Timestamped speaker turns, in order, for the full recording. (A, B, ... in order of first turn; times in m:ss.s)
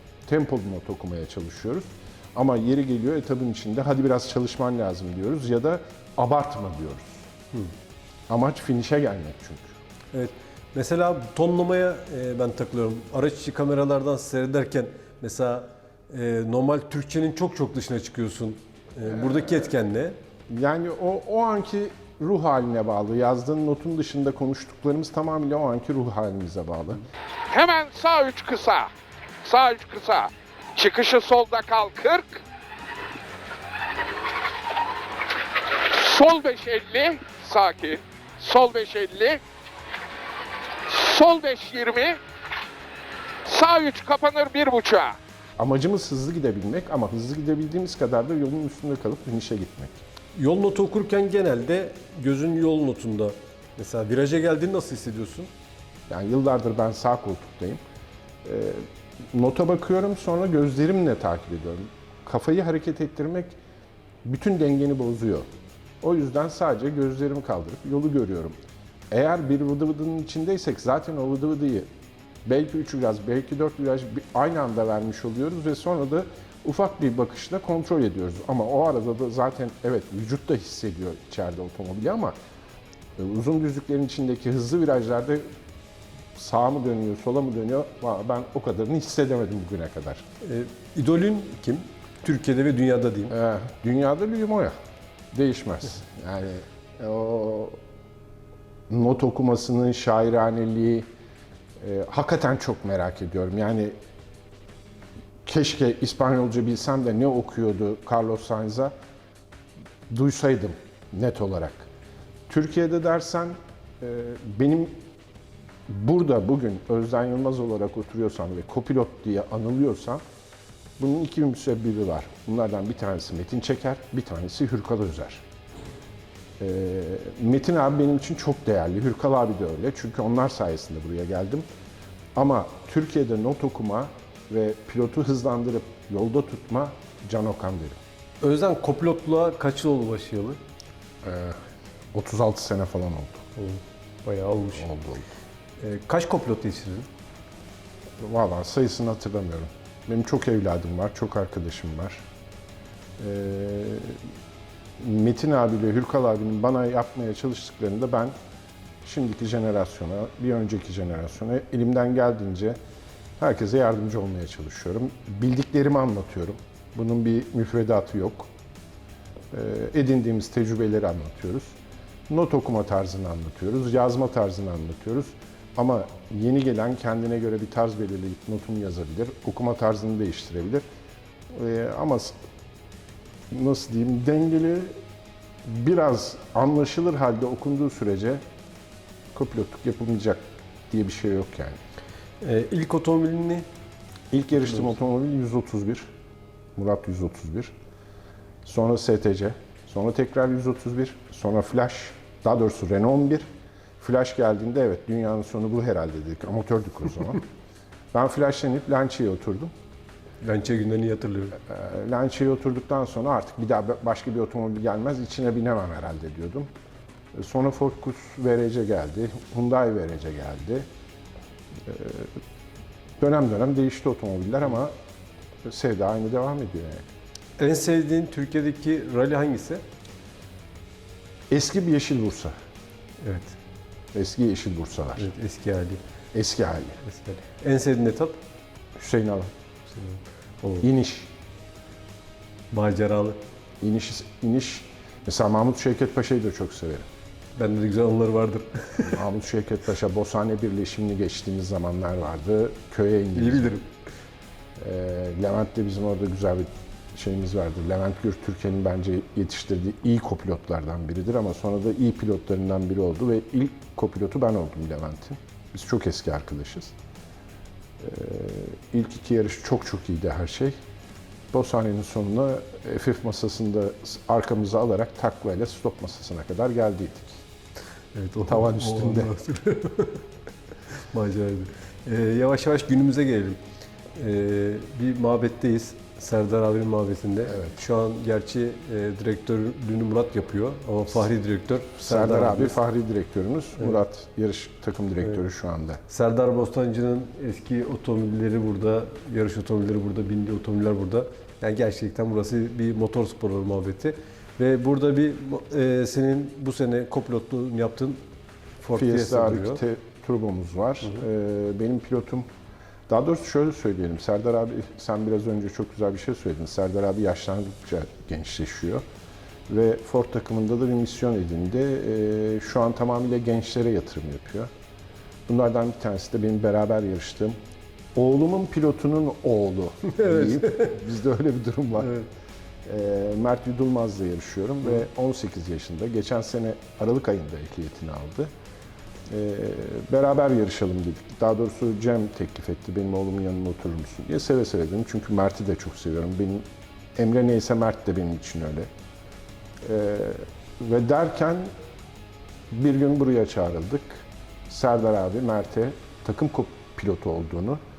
0:00.2-0:07.2 A
0:08.3-0:09.7 A
0:10.1-0:20.2 B
0:19.1-0:19.7 A
0:20.5-0:27.0 A
0:27.5-0:28.9 C
0:29.4-0:32.4 C
0:35.8-0:39.4 C
0:40.9-0:42.2 C
0:43.4-0:45.2 C
0:45.6-0:50.0 A
0:50.4-0:55.5 B
0:56.1-0:57.8 A
0:58.4-1:03.6 A
1:04.2-1:05.5 A
1:06.0-1:08.6 A
1:09.1-1:11.9 A
1:12.4-1:22.3 A
1:23.2-1:25.4 A
1:26.3-1:30.2 A
1:30.4-1:33.3 B
1:33.3-1:34.8 A
1:35.3-1:37.8 A
1:38.9-1:41.1 A
1:41.8-1:43.9 A
1:45.4-1:48.9 A
1:50.1-1:51.9 A
1:52.5-1:55.0 A
1:55.9-2:00.2 A
2:01.0-2:05.4 A
2:06.6-2:11.6 A
2:12.3-2:18.0 A
2:18.4-2:20.6 B
2:21.2-2:21.6 A
2:22.1-2:23.5 A
2:23.6-2:24.8 B
2:24.7-2:25.2 A
2:25.8-2:27.1 B
2:28.2-2:32.2 A
2:33.2-2:34.2 A
2:35.0-2:38.4 A
2:39.0-2:42.8 A
2:43.4-2:48.5 A
2:49.5-2:51.8 A
2:52.3-3:00.8 A
3:01.5-3:02.4 A
3:03.5-3:04.9 A
3:05.6-3:08.4 A
3:09.3-3:11.8 A
3:12.4-3:13.6 B
3:14.3-3:16.1 A
3:14.6-3:14.9 B
3:16.8-3:17.7 A
3:18.6-3:23.4 A
3:24.0-3:27.4 A
3:28.1-3:29.7 A
3:30.4-3:31.6 B
3:31.6-3:36.7 A
3:37.3-3:40.8 A
3:41.8-3:42.3 A
3:43.2-3:44.9 A
3:45.6-3:47.1 A
3:47.6-3:49.8 B
3:51.5-3:52.5 A
3:53.2-3:53.6 B
3:54.1-3:55.3 A
3:55.2-3:56.0 B
3:56.3-3:57.0 A
3:57.0-3:58.4 B
3:59.0-3:59.5 A
3:59.9-4:00.9 B
4:00.8-4:01.3 A
4:02.7-4:03.4 B
4:03.8-4:07.1 A
4:07.6-4:09.2 B
4:09.0-4:13.8 A
4:13.3-4:14.0 B
4:14.8-4:26.9 A
4:28.0-4:30.8 A
4:31.5-4:37.4 A
4:38.1-4:40.2 B
4:38.4-4:39.3 A
4:40.9-4:43.6 B
4:44.1-4:52.8 B
4:52.0-4:56.0 A
4:56.1-5:08.2 B
5:08.8-5:09.8 B
5:08.9-5:12.5 A
5:13.1-5:19.0 A
5:19.7-5:24.7 A
5:25.5-5:27.6 A
5:28.1-5:32.1 A
5:30.1-5:31.0 B
5:32.0-5:32.3 B
5:32.8-5:38.5 A
5:39.3-5:48.9 A
5:49.8-5:51.7 A
5:52.7-5:57.8 A